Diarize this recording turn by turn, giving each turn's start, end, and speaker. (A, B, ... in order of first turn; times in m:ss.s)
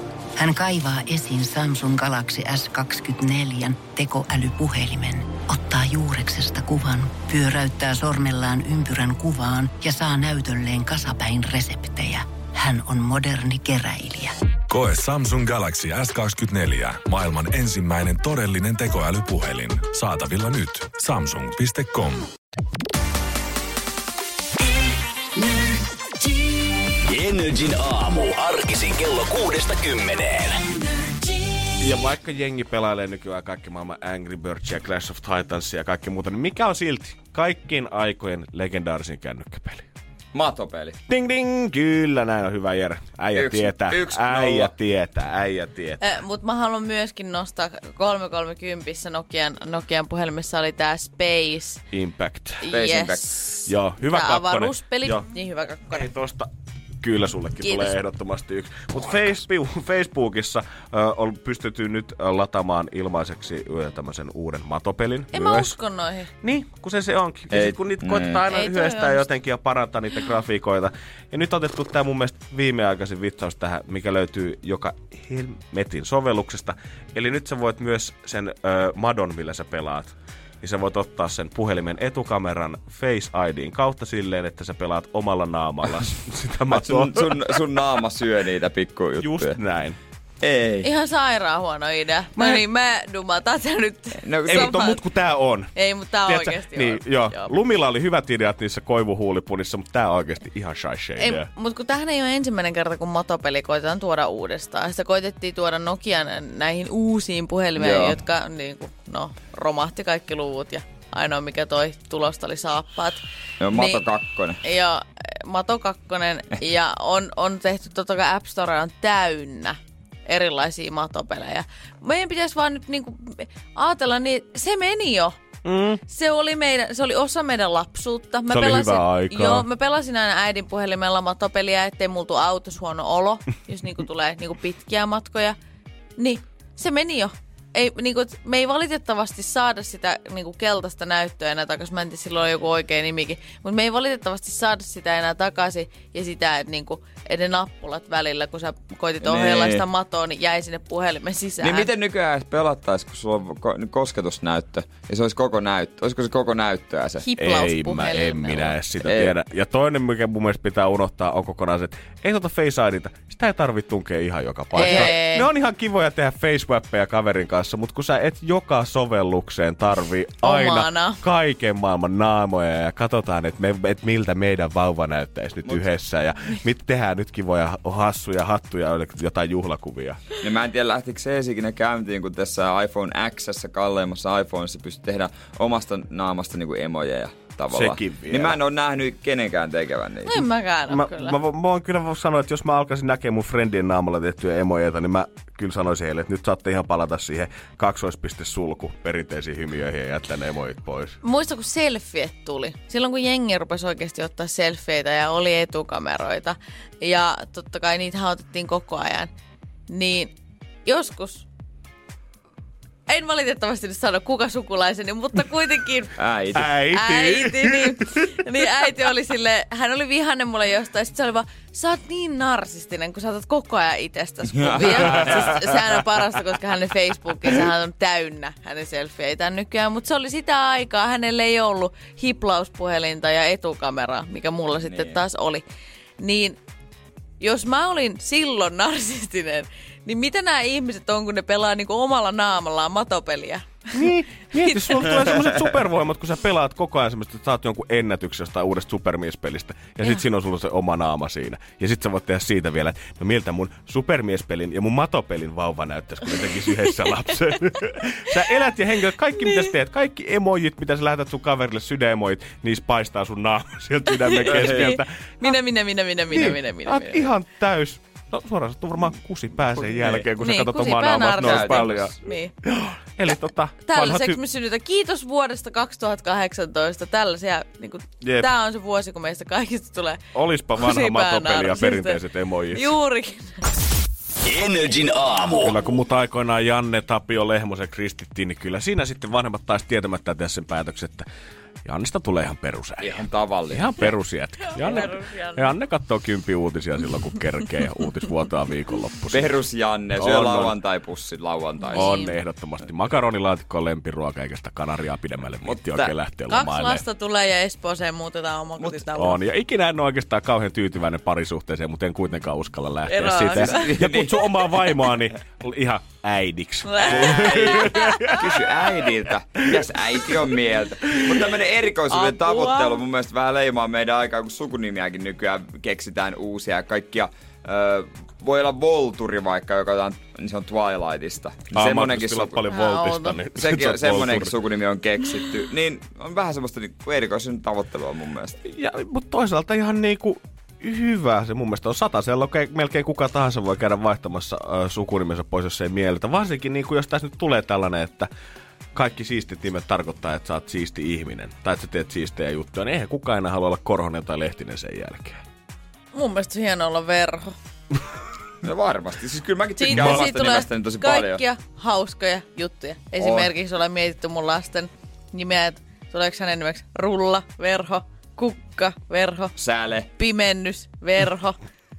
0:00.4-0:14.3 A
0:14.7-0:22.3 B
0:27.0-0:30.6 C
0:31.8-0:39.8 D
0:40.3-0:41.0 E
0:41.1-0:46.0 D
0:43.3-0:44.7 E
0:46.0-0:51.8 F
0:51.9-0:52.6 D
0:52.6-0:56.1 F
0:52.7-0:53.3 E
0:53.6-0:55.2 D
0:55.9-0:56.5 D
0:57.0-1:05.8 D
0:57.6-0:57.9 F
1:05.3-1:06.3 F
1:06.4-1:27.4 D
1:07.5-1:08.4 E
1:08.5-1:09.3 F
1:26.7-1:29.6 E
1:29.2-1:30.0 D
1:30.4-1:30.9 E
1:30.8-1:35.0 F
1:32.4-1:32.6 D
1:34.2-1:34.7 E
1:34.4-1:35.7 D
1:35.7-1:37.5 F
1:36.2-1:41.5 D
1:41.2-1:54.0 F
1:47.8-1:48.2 E
1:53.6-1:54.6 E
1:54.6-2:05.4 F
2:05.6-2:06.0 D
2:06.0-2:15.6 F
2:08.5-2:09.7 D
2:16.2-2:31.9 F
2:29.2-2:29.8 E
2:31.6-2:37.2 E
2:37.2-2:38.8 F
2:37.4-3:00.2 D
2:39.0-2:39.3 E
2:44.7-2:45.5 F
2:50.4-2:51.2 F
2:55.6-2:55.9 E
3:00.4-3:10.4 E
3:07.7-3:08.6 D
3:10.2-3:11.4 F
3:10.9-3:21.2 D
3:21.2-3:29.3 F
3:29.9-3:30.3 F
3:30.8-3:31.5 F
3:33.1-3:36.2 F
3:36.2-3:36.7 E
3:36.5-3:38.2 D
3:36.9-3:55.6 F
3:44.5-3:45.7 E
3:44.8-3:45.5 D
3:54.8-3:55.2 E
3:56.2-3:56.6 F
3:57.4-4:04.1 F
4:03.9-4:25.6 D
4:04.6-4:05.1 F
4:24.1-4:27.3 F
4:24.5-4:24.9 E
4:26.3-4:34.4 D
4:29.9-4:30.2 E
4:30.4-4:32.5 F
4:31.4-4:32.2 E
4:33.8-4:40.2 F
4:38.2-4:38.5 D
4:40.3-4:42.9 D
4:40.8-4:42.2 F
4:42.7-4:43.5 F
4:44.4-4:45.8 C
4:45.6-4:51.2 D
4:51.8-4:59.6 D
4:53.0-4:54.0 E
4:54.7-4:55.7 F
4:59.3-5:02.2 E
5:00.2-5:00.8 D
5:01.9-5:02.3 F
5:01.9-5:07.0 D
5:05.6-5:06.1 E
5:06.5-5:09.4 F
5:08.8-5:09.2 E
5:09.2-5:18.8 D
5:13.0-5:13.9 F
5:13.5-5:14.9 E
5:16.8-5:18.2 F
5:17.0-5:32.6 E
5:19.7-5:20.4 D
5:22.1-5:23.0 F
5:31.7-5:34.5 D
5:32.7-5:33.4 F
5:33.5-5:38.6 E
5:38.6-5:48.3 D
5:48.9-5:55.4 D
5:56.1-5:57.5 F
5:58.6-6:01.4 E
5:59.8-6:09.5 F
5:59.9-6:00.2 D
6:03.2-6:03.5 E
6:09.6-6:10.1 E
6:10.2-6:11.6 F